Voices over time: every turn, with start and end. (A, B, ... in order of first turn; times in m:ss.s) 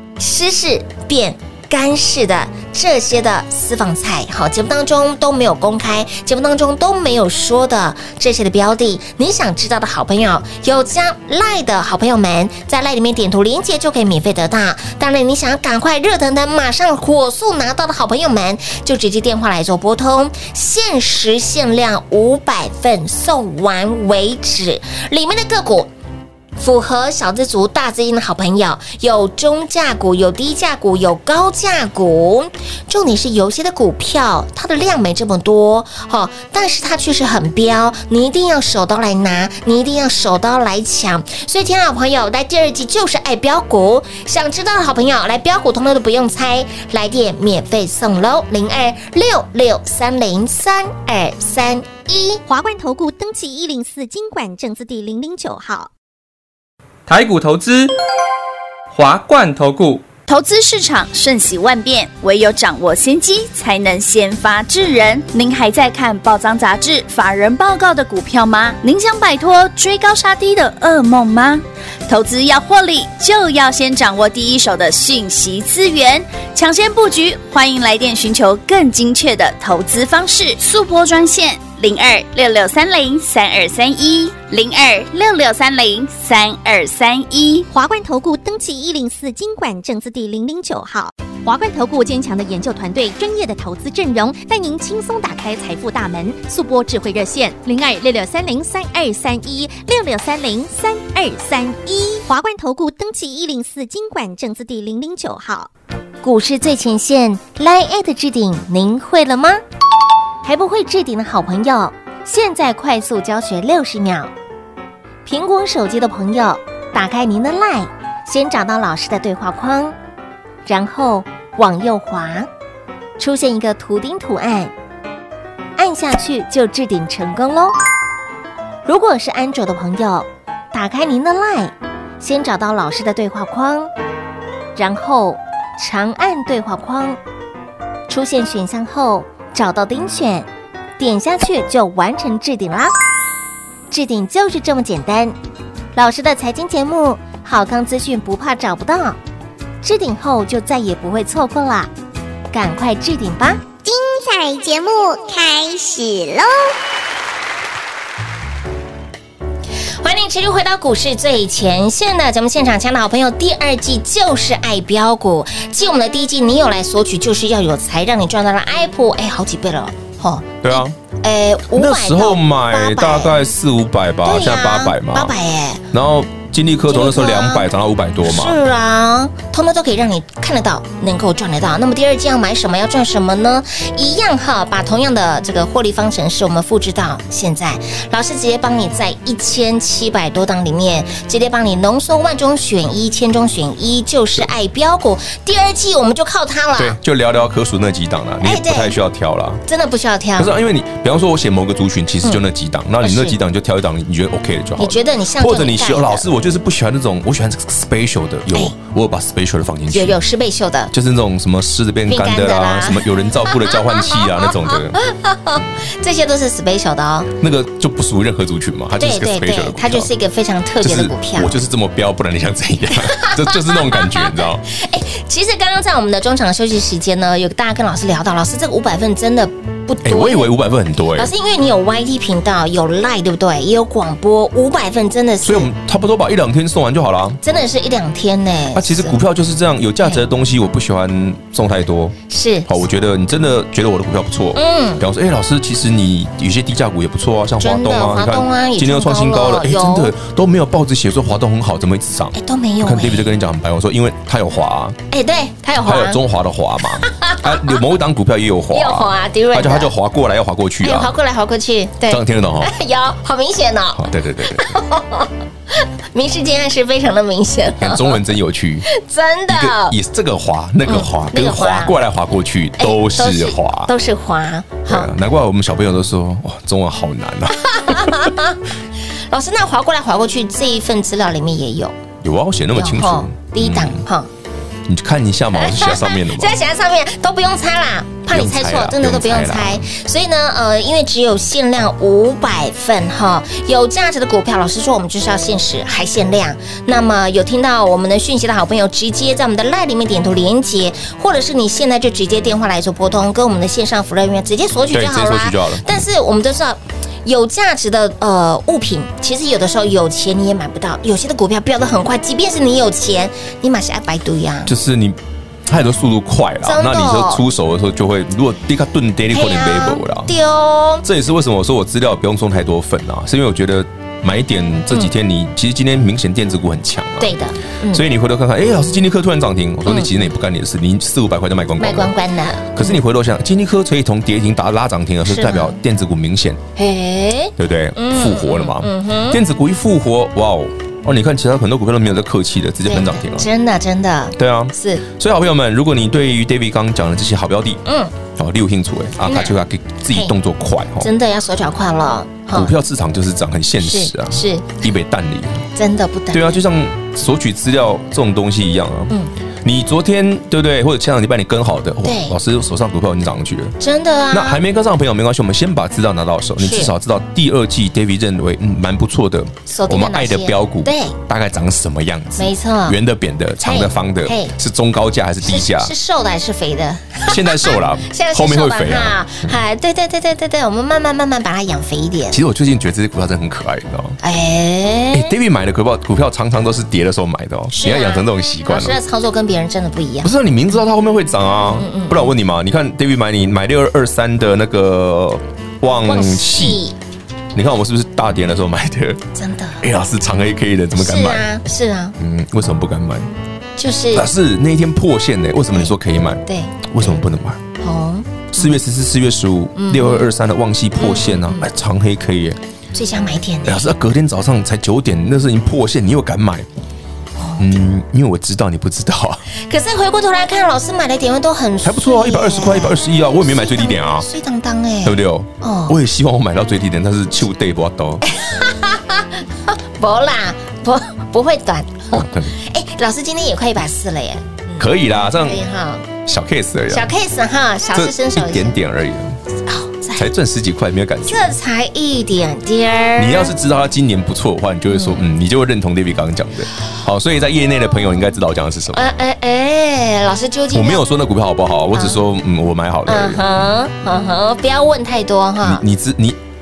0:00.2-0:25.9 A
0:26.6-0:52.4 A
0:52.5-0:55.9 B
0:57.1-0:57.9 C
0:58.9-1:00.0 C
1:00.3-1:27.7 D
1:27.7-1:45.7 B
1:46.2-1:49.6 A
1:50.4-1:54.3 A
1:55.2-2:00.0 A
2:00.6-2:02.5 A
2:03.2-2:04.7 A
2:05.8-2:07.7 A
2:08.8-2:13.9 A
2:14.8-2:17.2 A
2:18.1-2:20.5 A
2:21.0-2:22.9 A
2:23.9-2:25.3 A
2:25.9-2:29.2 A
2:29.8-2:31.9 A
2:32.5-2:33.6 A
2:33.8-2:36.7 E
2:40.0-2:53.4 A
2:50.6-2:50.9 F
2:51.7-2:55.3 F
2:54.2-2:55.8 A
2:55.9-2:58.6 F
2:56.9-2:57.7 A
2:58.2-3:17.0 A
3:16.8-3:19.6 F
3:18.4-3:19.0 A
3:19.7-3:20.5 A
3:20.4-3:30.2 F
3:23.0-3:23.4 A
3:24.8-3:26.2 A
3:29.9-3:30.9 A
3:30.9-3:35.0 F
3:32.1-3:37.3 A
3:37.4-3:40.1 F
3:39.0-3:41.6 A
3:40.8-3:44.6 F
3:43.0-3:50.5 A
3:50.0-3:51.3 F
3:51.2-3:55.7 A
3:55.4-3:57.4 F
3:57.4-3:59.2 A
3:58.7-4:02.2 F
4:02.3-4:02.7 A
4:02.7-4:15.0 F
4:04.5-4:05.0 A
4:07.6-4:10.1 A
4:12.3-4:13.3 A
4:15.1-4:16.2 A
4:15.8-4:21.1 F
4:17.0-4:17.8 A
4:18.7-4:19.9 A
4:20.8-4:28.2 A
4:22.1-4:22.7 F
4:23.9-4:24.7 F
4:27.8-4:28.8 F
4:28.9-4:30.0 A
4:29.5-4:33.9 F
4:30.8-4:32.0 A
4:32.8-4:35.1 A
4:34.9-4:38.3 F
4:37.6-4:38.6 A
4:39.3-4:41.9 A
4:42.2-4:44.0 F
4:42.7-4:44.3 A
4:44.8-4:46.5 F
4:45.5-5:14.7 A
4:48.3-4:49.9 F
5:04.9-5:05.9 F
5:14.6-5:20.3 F
5:16.6-5:17.4 A
5:19.3-5:21.0 A
5:21.0-5:27.4 F
5:27.2-5:28.0 A
5:27.9-5:32.1 F
5:31.8-5:33.0 A
5:32.7-5:36.6 F
5:35.2-5:35.8 A
5:36.8-5:39.4 A
5:37.6-5:43.5 F
5:42.8-5:45.0 A
5:44.4-5:47.8 F
5:47.8-5:48.1 A
5:48.4-5:51.1 F
5:49.2-5:49.6 A
5:51.0-5:52.7 A
5:52.5-5:55.7 F
5:53.8-5:54.8 A
5:55.8-5:56.6 A
5:56.3-5:59.1 F
5:59.6-6:03.8 F
6:02.0-6:02.4 A
6:03.8-6:04.6 A
6:04.3-6:15.9 F
6:06.6-6:06.9 A
6:09.7-6:11.2 A
6:12.4-6:13.0 A
6:13.6-6:14.5 A
6:15.4-6:22.4 A
6:17.3-6:19.5 F
6:22.3-6:24.2 F
6:24.2-6:25.3 A
6:25.1-6:29.0 F
6:27.7-6:30.3 A
6:30.2-6:36.8 F
6:31.7-6:32.3 A
6:36.0-6:37.0 A
6:37.5-6:39.2 F
6:39.3-6:39.8 A
6:39.8-6:41.5 F
6:41.0-6:42.2 A
6:42.2-6:43.3 F
6:43.8-6:44.3 A
6:44.1-6:47.6 F
6:45.7-6:47.2 A
6:47.8-6:48.8 A
6:48.5-6:52.6 F
6:49.8-6:50.3 A
6:51.0-6:51.7 A
6:52.9-6:53.9 A
6:53.6-6:56.7 F
6:57.4-6:57.7 A
6:57.6-6:59.4 F
6:59.6-7:06.0 A
7:01.8-7:04.3 F
7:05.0-7:08.2 F
7:08.2-7:16.0 A
7:12.1-7:12.5 F
7:14.8-7:15.6 F
7:16.2-7:17.1 F
7:16.9-7:18.8 A
7:17.9-7:19.4 F
7:19.6-7:20.3 A
7:20.2-7:21.4 F
7:21.2-7:23.5 A
7:23.2-7:29.0 F
7:24.9-7:25.2 A
7:28.9-7:31.0 A
7:30.7-7:33.4 F
7:31.9-7:32.2 A
7:33.1-7:35.8 A
7:35.6-7:36.4 F